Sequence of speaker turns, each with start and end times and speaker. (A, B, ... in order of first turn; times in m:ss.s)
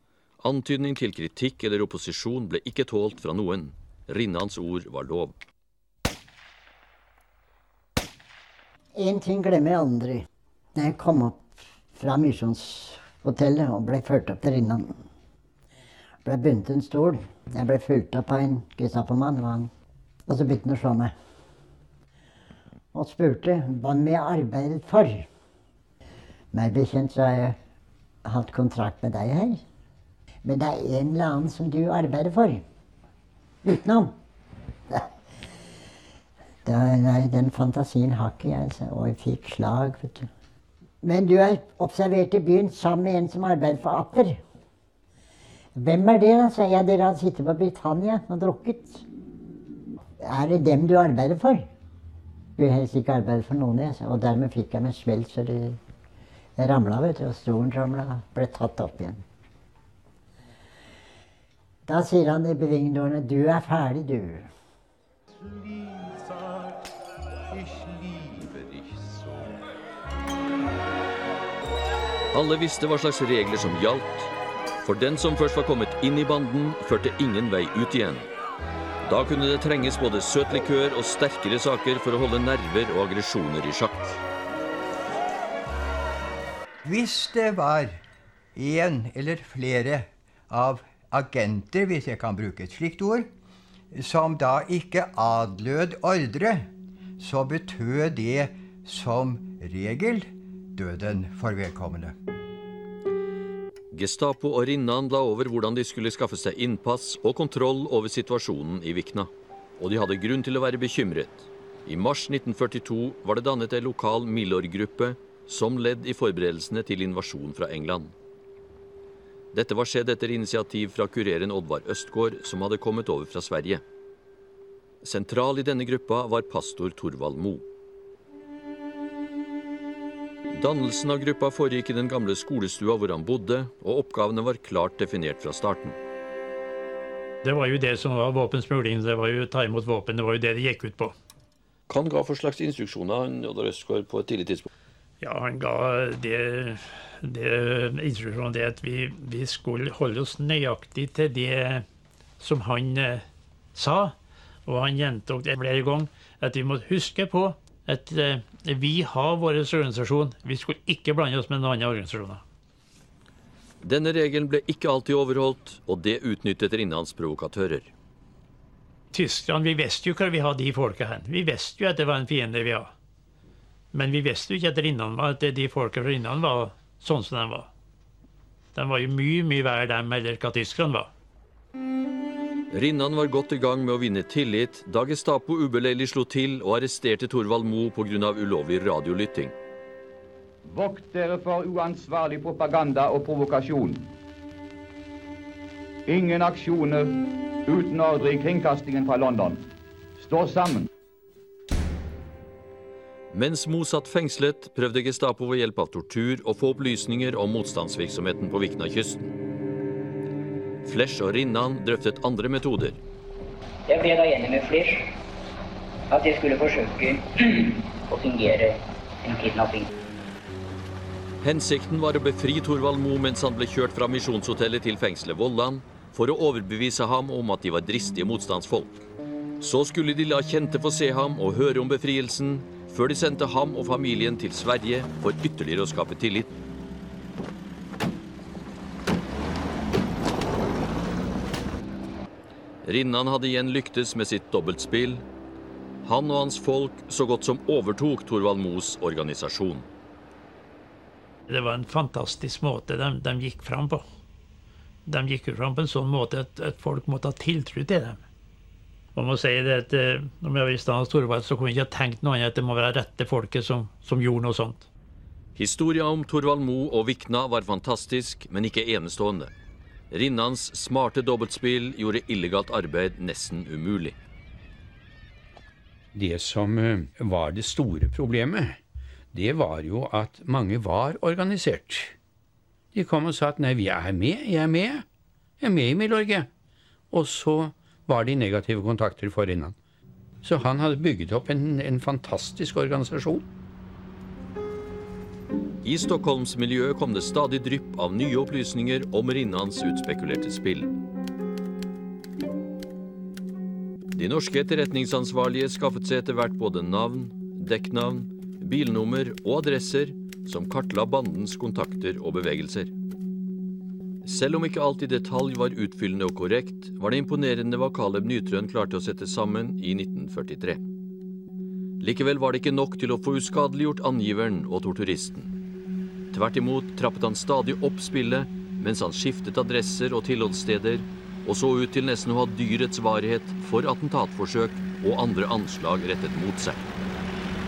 0:00.4-0:05.4 A
0:09.0-0:10.2 B
0:10.8-0:11.4 B
0:12.0-0:14.9 B
0:16.2-0:19.7 B
0:20.3-0:21.1 B
0:22.9-0:25.2 B
0:26.5-0:27.6 B
0:28.3-0:29.6 B
0:30.4-0:32.6 B
0:33.7-0:34.1 B
0:36.7-0:40.3 B
0:41.0-0:44.4 B
0:45.8-0:49.0 B
0:50.2-0:51.7 B
0:52.6-0:55.8 B
0:56.6-0:59.2 B
1:01.9-1:04.5 B
1:12.3-1:14.3 A
1:14.8-1:18.3 A
1:19.0-1:24.2 A
1:27.0-1:27.9 C
1:28.6-1:29.8 C
1:30.5-1:33.2 C
1:34.1-1:36.6 C
1:37.3-1:38.3 C
1:38.9-1:39.8 C
1:40.8-1:42.1 C
1:43.9-1:58.1 A
1:59.5-2:03.8 A
2:05.0-2:07.7 A
2:10.5-2:16.0 A
2:17.4-2:21.2 D
2:21.9-2:24.7 A
2:25.2-2:31.8 D
2:32.4-2:33.2 D
2:33.8-2:34.1 D
2:34.7-2:42.4 D
2:43.8-2:47.9 A
2:49.1-2:52.9 D
2:53.9-2:57.7 D
2:58.7-3:01.1 D
3:02.7-3:09.6 A
3:10.7-3:14.1 E
3:16.1-3:17.1 E
3:17.7-3:19.6 E
3:20.2-3:20.9 E
3:23.3-3:29.3 A
3:30.8-3:33.0 A
3:33.9-3:35.1 F
3:36.1-3:39.9 F
3:41.4-3:49.0 A
3:49.6-3:56.5 A
4:02.8-4:05.2 A
4:06.0-4:09.9 A
4:11.5-4:14.0 D
4:15.1-4:18.2 D
4:19.2-4:24.9 D
4:25.6-4:29.5 A
4:30.1-4:34.2 A
4:36.1-4:38.8 G
4:39.3-4:42.1 G
4:42.9-4:45.0 G
4:45.6-4:46.5 G
4:47.1-4:49.8 G
4:50.4-4:53.4 G
4:55.8-5:01.0 A
5:04.1-5:12.9 A
5:14.2-5:20.8 A
5:22.0-5:25.5 A
5:26.3-5:36.9 A